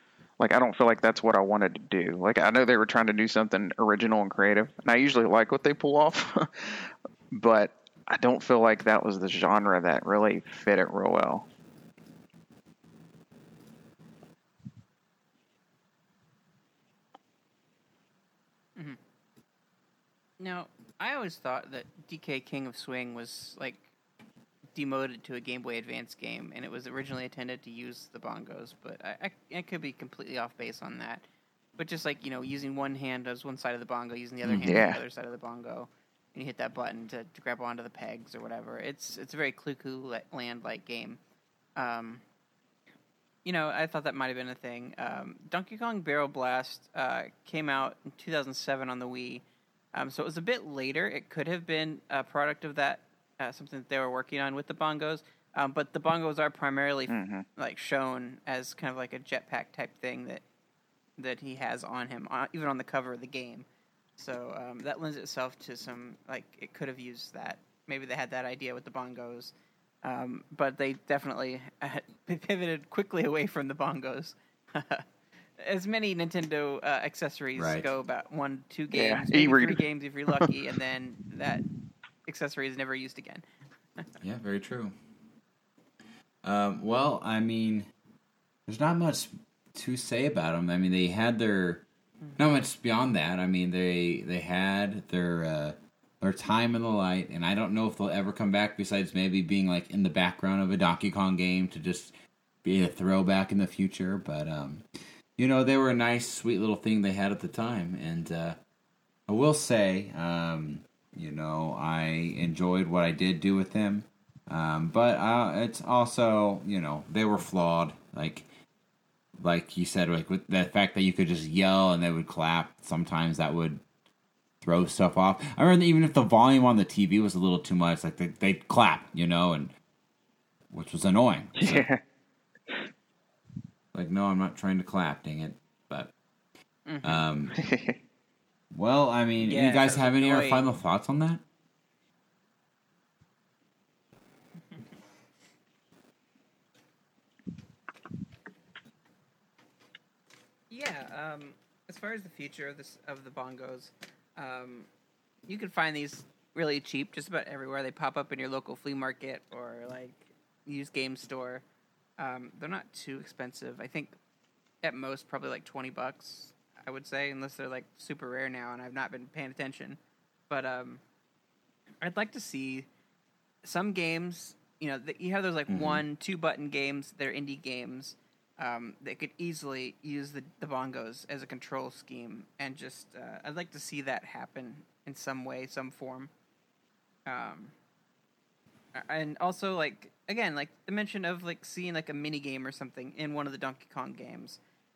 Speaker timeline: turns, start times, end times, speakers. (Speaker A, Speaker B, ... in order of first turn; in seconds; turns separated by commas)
Speaker A: 0.4-11.4, Speaker B: 20.4-23.9, Speaker B: 24.7-31.2, Speaker B: 31.8-41.2, Speaker C: 34.4-34.8, Speaker A: 34.6-35.0, Speaker B: 41.8-42.2, Speaker B: 43.4-49.4, Speaker B: 49.9-60.4, Speaker A: 57.1-57.5, Speaker B: 61.2-63.6, Speaker B: 64.2-69.5, Speaker B: 70.0-75.0, Speaker B: 75.6-81.6, Speaker C: 77.5-77.9, Speaker A: 78.9-79.8, Speaker B: 82.2-83.4, Speaker C: 84.2-84.9, Speaker C: 86.4-87.9, Speaker C: 88.7-91.8, Speaker C: 92.4-104.8, Speaker C: 105.4-108.6, Speaker C: 109.3-118.5, Speaker C: 119.4-123.8, Speaker C: 124.6-129.7, Speaker C: 130.7-131.9, Speaker A: 131.6-132.0, Speaker C: 133.9-136.1, Speaker B: 136.8-137.2, Speaker C: 137.0-137.6, Speaker A: 137.5-138.0, Speaker C: 138.7-141.4, Speaker B: 139.4-140.7, Speaker B: 150.7-154.9, Speaker B: 155.5-161.6, Speaker B: 162.2-164.2, Speaker B: 164.8-170.0, Speaker B: 170.5-171.0, Speaker B: 172.0-172.9, Speaker B: 173.6-186.3, Speaker C: 175.7-176.0, Speaker B: 187.3-187.7, Speaker B: 188.9-194.6